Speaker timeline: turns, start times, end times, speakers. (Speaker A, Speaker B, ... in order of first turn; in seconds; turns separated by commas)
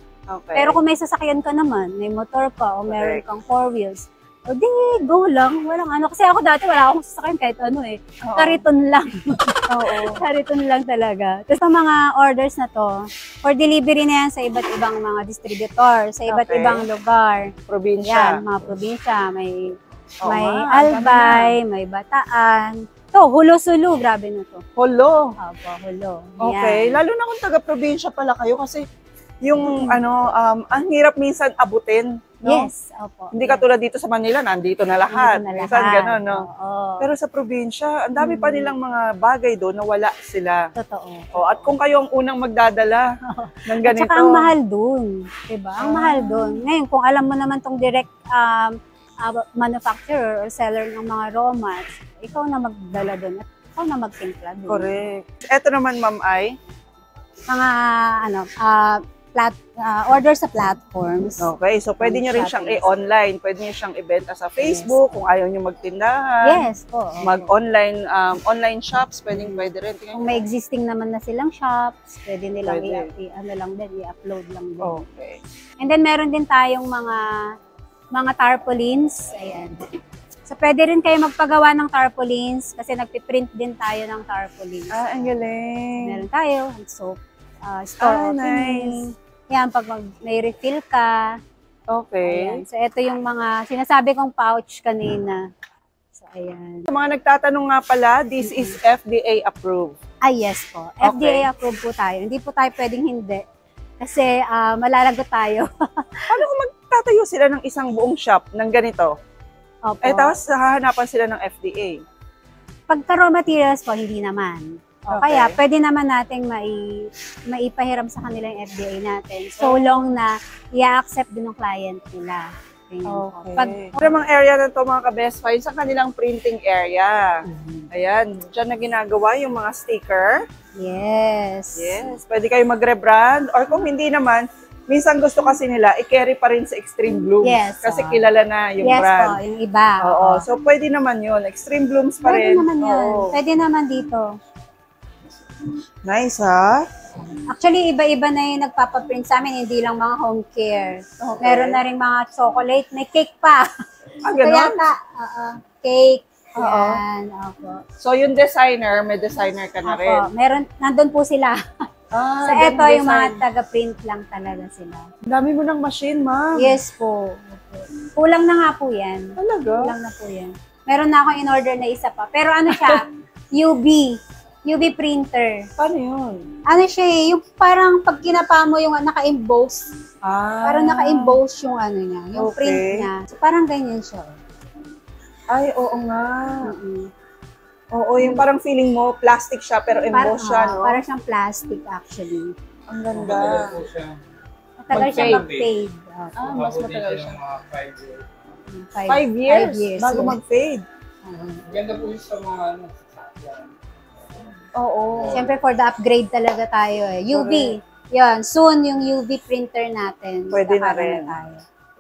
Speaker A: 0.3-0.8, Speaker B: 0.6-24.6, Speaker A: 2.9-3.2, Speaker A: 8.2-8.6, Speaker A: 9.7-10.2, Speaker A: 16.3-16.9, Speaker A: 17.7-18.4, Speaker A: 20.2-21.6, Speaker A: 24.8-25.3, Speaker B: 25.4-27.0, Speaker A: 26.4-28.8, Speaker A: 29.4-32.7, Speaker B: 29.6-30.0, Speaker B: 32.5-33.6, Speaker A: 33.3-36.5, Speaker B: 35.1-37.1, Speaker A: 37.0-40.6, Speaker B: 38.2-38.7, Speaker B: 40.8-41.3, Speaker A: 41.4-43.0, Speaker B: 43.2-54.9, Speaker A: 43.7-44.5, Speaker A: 45.8-46.6, Speaker A: 54.7-56.5, Speaker B: 57.5-61.5, Speaker A: 61.4-66.7, Speaker B: 62.0-62.9, Speaker B: 64.6-65.0, Speaker B: 66.5-67.5, Speaker A: 67.2-70.5, Speaker B: 69.3-75.0, Speaker A: 72.6-73.1, Speaker A: 74.8-75.4, Speaker B: 75.8-77.4, Speaker B: 78.1-79.8, Speaker B: 80.5-85.3, Speaker A: 84.9-86.2, Speaker B: 86.0-91.3, Speaker A: 88.0-89.0, Speaker A: 91.9-92.6, Speaker B: 92.2-95.4, Speaker B: 96.2-96.9, Speaker A: 96.9-99.9, Speaker B: 98.4-98.8, Speaker B: 100.2-103.5, Speaker A: 101.0-101.5, Speaker B: 104.0-106.4, Speaker A: 106.3-109.1, Speaker B: 109.9-110.3, Speaker A: 110.0-112.0, Speaker B: 112.9-124.2, Speaker A: 115.1-115.6, Speaker A: 119.6-120.1, Speaker A: 123.1-127.4, Speaker B: 127.4-127.9, Speaker A: 127.9-130.4, Speaker B: 130.8-132.0, Speaker A: 131.8-139.4, Speaker B: 137.4-138.2, Speaker B: 138.8-140.4, Speaker A: 140.0-143.4, Speaker B: 142.2-144.3, Speaker A: 146.1-146.8, Speaker B: 147.3-153.7, Speaker A: 151.2-151.8, Speaker A: 154.2-154.8, Speaker B: 154.3-157.8, Speaker A: 156.6-157.0, Speaker A: 158.0-160.3, Speaker B: 159.8-161.6, Speaker A: 162.1-163.4, Speaker B: 162.4-165.1, Speaker A: 165.2-166.8, Speaker B: 166.6-175.7, Speaker A: 169.4-169.9, Speaker A: 172.7-173.0, Speaker A: 175.8-176.5, Speaker B: 176.7-179.9, Speaker A: 180.2-181.4, Speaker B: 180.7-184.3, Speaker A: 182.4-183.1, Speaker A: 185.5-186.7, Speaker B: 186.6-187.1, Speaker A: 187.9-191.0, Speaker B: 190.1-192.5, Speaker A: 192.9-193.8, Speaker C: 193.2-194.2, Speaker B: 194.8-196.5, Speaker A: 194.9-195.6, Speaker C: 194.9-195.7, Speaker A: 196.4-197.4, Speaker C: 196.5-198.2, Speaker B: 198.7-200.4, Speaker A: 199.1-200.8, Speaker B: 201.2-201.7, Speaker C: 201.7-203.7, Speaker A: 204.8-205.5, Speaker B: 205.3-211.6, Speaker A: 207.3-207.8, Speaker A: 210.5-211.4